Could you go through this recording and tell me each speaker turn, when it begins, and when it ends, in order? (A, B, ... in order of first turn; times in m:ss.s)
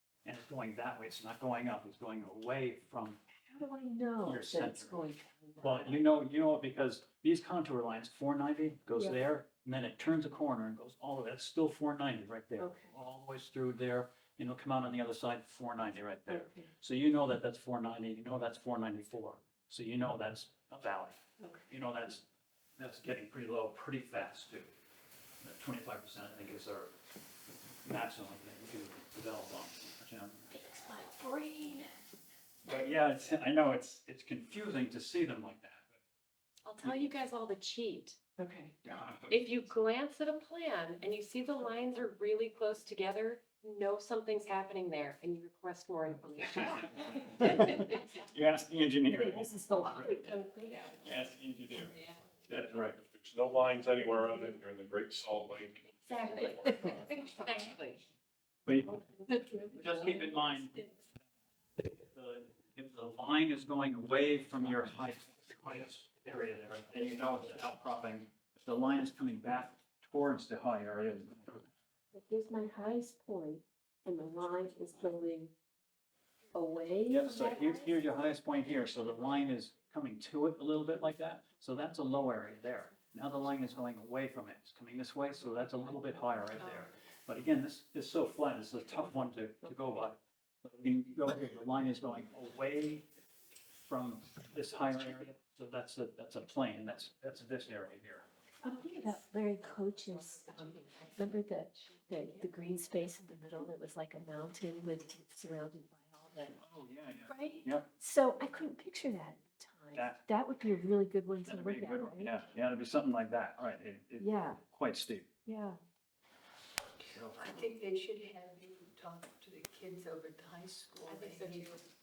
0:00.2-0:03.2 A
0:03.5-0:06.0 B
0:04.2-0:05.0 A
0:05.6-0:22.2 A
0:12.6-0:12.9 B
0:16.3-0:16.7 B
0:22.8-0:24.7 A
0:25.4-0:26.9 A
0:27.8-0:30.6 A
0:30.5-0:31.9 B
0:32.6-0:36.0 A
0:36.6-0:38.2 C
0:38.4-0:38.7 B
0:38.8-0:39.3 A
0:39.3-0:48.0 C
0:46.6-0:50.1 A
0:49.2-0:50.9 B
0:51.0-0:51.9 A
0:52.5-0:53.0 A
0:52.5-0:56.9 D
0:56.0-0:58.0 C
0:58.6-0:59.0 A
0:59.3-0:59.7 B
0:59.7-1:00.8 A
1:01.8-1:11.6 A
1:12.1-1:15.5 B
1:16.5-1:17.8 B
1:17.1-1:33.0 A
1:33.7-1:38.2 A
1:38.6-1:46.5 B
1:46.6-1:47.9 A
1:47.3-1:52.3 B
1:49.9-1:50.2 A
1:51.4-1:55.3 A
1:54.2-1:54.6 B
1:55.4-1:55.8 B
1:57.0-1:57.4 A
1:57.3-2:01.8 E
2:01.0-2:01.8 B